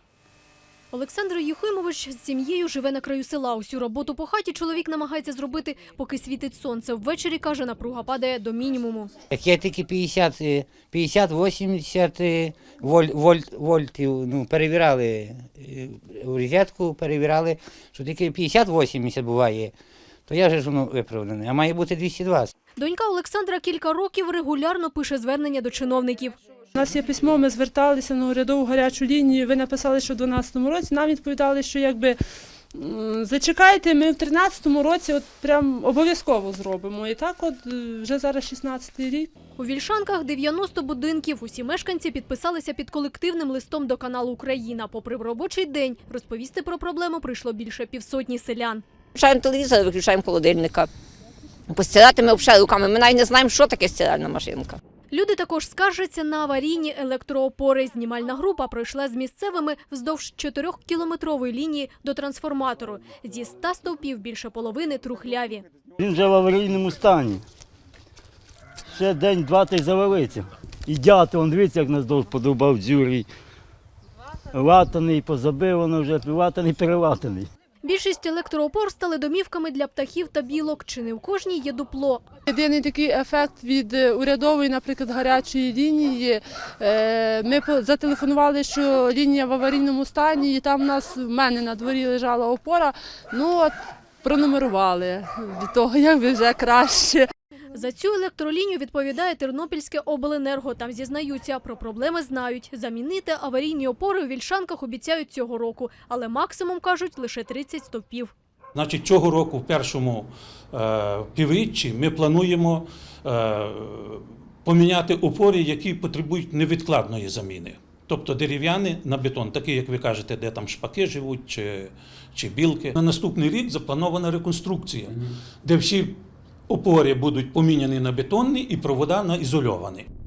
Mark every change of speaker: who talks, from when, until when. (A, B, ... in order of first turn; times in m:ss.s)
0:00.9-0:09.1 A
0:09.3-0:19.7 B
0:20.3-0:22.5 B
0:22.8-0:26.4 A
0:26.7-0:32.1 C
0:32.7-0:39.3 C
0:39.6-0:48.8 A
0:49.1-0:50.9 D
0:51.7-0:54.8 D
0:55.1-1:05.6 A
1:06.0-1:07.4 E
1:08.9-1:13.3 E
1:14.5-1:17.5 E
1:17.8-1:22.2 A
1:22.5-1:37.3 C
1:37.7-1:48.3 A
1:48.7-2:10.1 F